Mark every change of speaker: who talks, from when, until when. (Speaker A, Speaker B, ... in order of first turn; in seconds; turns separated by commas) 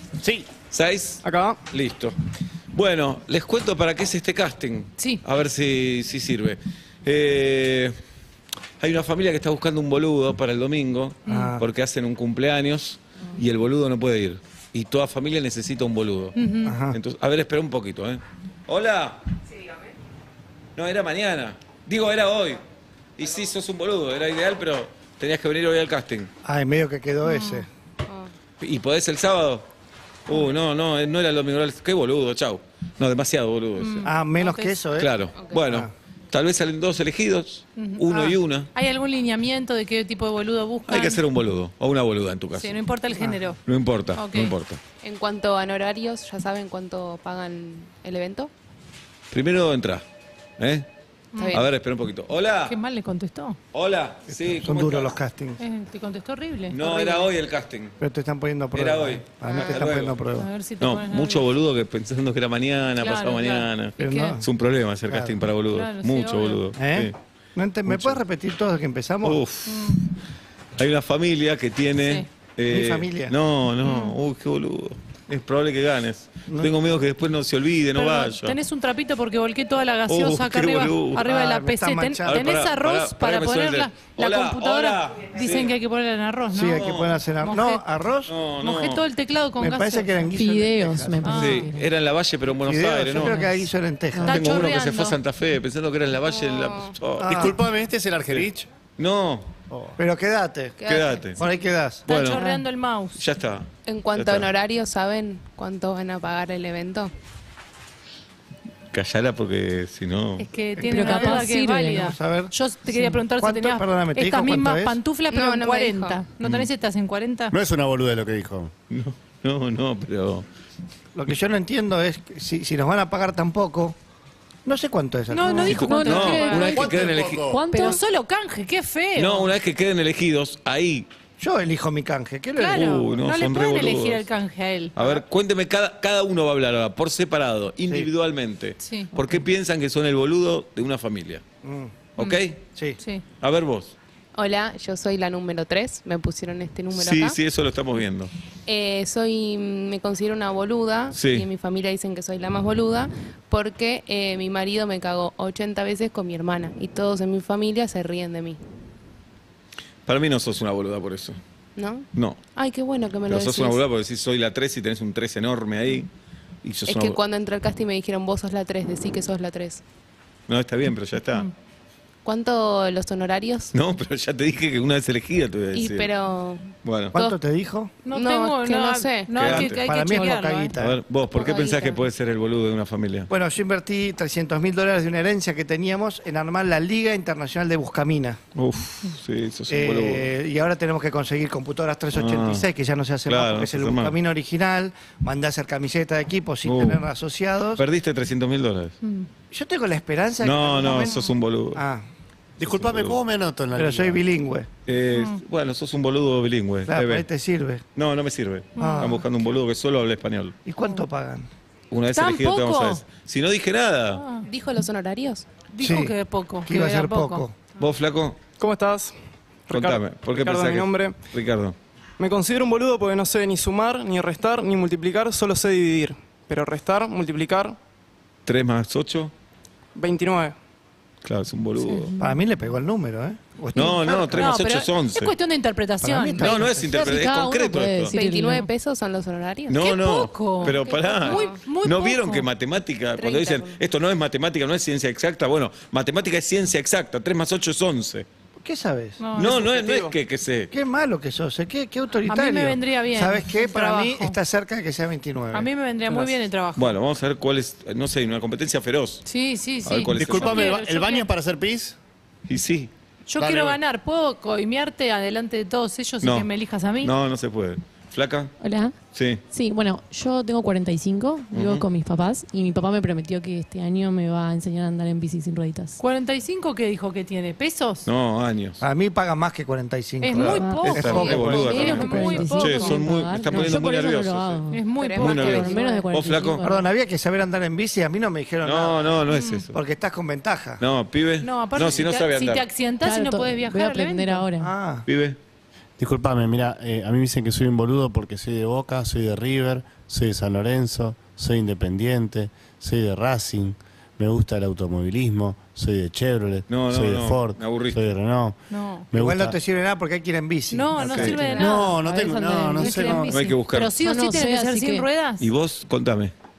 Speaker A: 0.7-2.2, Speaker B: 1.2-1.6, Speaker A: 2.7-7.9, Speaker C: 5.0-5.2, Speaker A: 8.8-16.3, Speaker D: 11.3-11.6, Speaker C: 16.4-16.8, Speaker D: 16.6-17.0, Speaker A: 16.9-19.2, Speaker A: 20.8-22.6, Speaker A: 23.2-26.3, Speaker D: 26.4-27.7, Speaker C: 27.2-27.7, Speaker E: 28.1-28.3, Speaker A: 28.6-29.7, Speaker A: 30.3-34.0, Speaker C: 33.8-34.8, Speaker D: 34.0-35.9, Speaker A: 35.0-38.7, Speaker C: 37.8-38.1, Speaker D: 38.1-38.4, Speaker C: 38.7-41.3, Speaker A: 40.9-42.8, Speaker C: 42.5-43.6, Speaker D: 43.1-43.4, Speaker A: 43.7-44.8, Speaker C: 44.1-44.6, Speaker E: 45.0-48.5, Speaker A: 49.3-50.0, Speaker A: 50.6-50.9, Speaker C: 51.3-51.6, Speaker E: 51.4-51.7, Speaker A: 51.5-52.8, Speaker C: 52.6-53.6, Speaker A: 53.7-55.2, Speaker D: 54.3-55.6, Speaker C: 55.6-57.3, Speaker A: 56.7-58.0, Speaker D: 58.0-60.5, Speaker A: 58.7-60.2, Speaker C: 59.4-59.7, Speaker C: 60.3-61.5, Speaker A: 60.8-67.2, Speaker C: 63.0-64.4, Speaker D: 64.0-64.5, Speaker D: 65.1-65.4, Speaker C: 65.7-66.7, Speaker D: 66.7-69.5, Speaker A: 67.9-68.2, Speaker A: 69.2-70.0, Speaker C: 69.6-70.0, Speaker A: 70.8-78.6, Speaker C: 72.0-72.3, Speaker D: 72.7-73.4, Speaker C: 73.8-74.2, Speaker D: 76.5-76.8, Speaker C: 77.9-87.8, Speaker A: 80.1-81.3, Speaker D: 81.2-82.5, Speaker A: 82.2-85.7, Speaker D: 86.5-88.4, Speaker A: 86.7-87.3, Speaker A: 88.3-89.1, Speaker C: 88.5-90.3, Speaker D: 89.6-91.6, Speaker F: 90.3-91.9, Speaker C: 91.2-91.7, Speaker A: 91.3-93.5, Speaker D: 92.6-94.4, Speaker F: 93.2-93.5, Speaker F: 94.1-94.6, Speaker C: 94.2-95.2, Speaker A: 94.3-97.5, Speaker E: 96.3-97.0, Speaker D: 97.2-97.6, Speaker G: 97.2-98.7, Speaker A: 98.3-99.5, Speaker G: 99.7-100.0, Speaker D: 100.0-100.8, Speaker E: 100.8-101.6, Speaker A: 100.9-101.4, Speaker D: 101.4-102.1, Speaker C: 102.1-103.2, Speaker A: 102.1-102.5, Speaker F: 102.3-102.6, Speaker A: 103.2-104.5, Speaker E: 103.8-107.1, Speaker A: 108.9-110.5, Speaker C: 110.4-117.5, Speaker F: 110.8-112.2, Speaker D: 110.8-112.5, Speaker F: 112.8-113.3, Speaker D: 113.3-115.0, Speaker E: 115.3-116.2, Speaker A: 116.4-116.7, Speaker G: 117.5-118.7, Speaker A: 118.9-120.5, Speaker D: 121.2-124.0, Speaker D: 124.7-126.4, Speaker C: 125.3-126.9, Speaker F: 125.3-128.0, Speaker A: 125.5-127.5, Speaker G: 126.5-127.6, Speaker C: 127.7-129.6, Speaker A: 129.2-131.1, Speaker D: 131.4-133.1, Speaker C: 132.6-135.0, Speaker A: 132.6-134.3, Speaker A: 134.9-141.4, Speaker C: 138.8-139.2, Speaker D: 141.6-142.1, Speaker A: 142.2-142.7, Speaker C: 143.0-143.3, Speaker A: 143.4-143.9, Speaker E: 144.3-147.4, Speaker A: 146.9-148.3, Speaker E: 148.7-158.6, Speaker A: 151.1-151.5, Speaker A: 160.1-161.4, Speaker E: 161.8-163.8, Speaker A: 163.3-166.1, Speaker A: 166.6-167.2, Speaker E: 166.9-169.8, Speaker A: 170.5-171.5, Speaker E: 172.2-173.7, Speaker A: 173.7-176.1, Speaker E: 175.7-177.4, Speaker A: 176.8-177.2, Speaker D: 177.1-178.0, Speaker C: 178.0-180.8, Speaker E: 178.1-179.5, Speaker A: 179.3-179.9, Speaker D: 179.4-181.0, Speaker A: 180.8-183.3, Speaker E: 181.3-182.1, Speaker D: 183.3-188.4, Speaker A: 188.6-190.3, Speaker D: 189.7-197.8, Speaker A: 192.1-192.7, Speaker A: 193.3-194.2, Speaker A: 196.6-197.0, Speaker A: 197.8-198.9, Speaker C: 199.0-199.3, Speaker D: 199.5-202.1, Speaker A: 200.4-201.8, Speaker C: 200.9-201.3, Speaker G: 202.6-204.2, Speaker A: 202.7-203.2, Speaker D: 203.8-204.7, Speaker A: 204.9-207.3, Speaker C: 205.1-205.4, Speaker D: 206.9-207.8, Speaker A: 208.0-210.6, Speaker C: 208.8-209.2, Speaker D: 208.8-209.2, Speaker D: 210.7-211.5, Speaker A: 211.9-214.2, Speaker C: 212.1-213.1, Speaker C: 214.1-214.5, Speaker E: 214.4-215.5, Speaker C: 215.7-217.5, Speaker D: 215.8-217.6, Speaker A: 217.8-218.4, Speaker B: 218.6-219.2, Speaker B: 219.7-221.2, Speaker A: 219.7-221.8, Speaker B: 222.2-227.8, Speaker A: 228.4-229.3, Speaker B: 229.9-230.6, Speaker A: 231.2-232.1, Speaker C: 231.8-232.2, Speaker F: 232.1-232.4, Speaker D: 232.2-234.6, Speaker A: 233.8-235.3, Speaker C: 234.3-236.5, Speaker D: 236.0-237.1, Speaker A: 236.4-238.2, Speaker F: 236.4-238.7, Speaker E: 238.1-239.8, Speaker A: 239.7-248.3, Speaker C: 239.8-242.5, Speaker E: 240.6-241.6, Speaker E: 243.2-243.8, Speaker D: 248.6-249.3, Speaker C: 249.2-249.6, Speaker A: 249.3-250.7, Speaker B: 249.4-250.2, Speaker D: 250.7-256.3, Speaker C: 252.2-254.4, Speaker C: 255.5-257.0, Speaker A: 256.8-259.2, Speaker C: 259.3-261.3, Speaker A: 259.8-260.7, Speaker G: 260.1-262.0, Speaker A: 262.5-262.9, Speaker C: 263.3-267.1, Speaker G: 263.4-263.8, Speaker A: 266.2-266.5, Speaker A: 267.0-268.5, Speaker F: 268.6-269.0, Speaker A: 269.1-269.4, Speaker F: 269.5-276.0, Speaker A: 271.5-271.9, Speaker C: 276.0-278.1, Speaker A: 278.1-278.8, Speaker D: 278.8-282.6, Speaker C: 280.2-283.0, Speaker F: 280.4-286.9, Speaker A: 280.8-284.6, Speaker C: 284.7-286.0, Speaker E: 285.0-286.0, Speaker A: 285.1-286.7, Speaker D: 286.6-289.2, Speaker A: 288.6-289.8, Speaker C: 289.3-289.7, Speaker D: 289.7-290.8, Speaker A: 290.8-292.7, Speaker C: 291.4-294.5, Speaker F: 293.0-294.7, Speaker D: 294.6-295.1, Speaker A: 295.1-295.4, Speaker G: 296.0-308.6, Speaker A: 306.7-308.0, Speaker C: 308.7-309.1, Speaker G: 309.1-309.6, Speaker D: 309.1-311.8, Speaker C: 310.7-312.0, Speaker A: 311.1-311.4, Speaker G: 311.2-313.4, Speaker F: 311.6-315.1, Speaker C: 312.8-315.5, Speaker A: 313.3-314.0, Speaker A: 315.4-316.3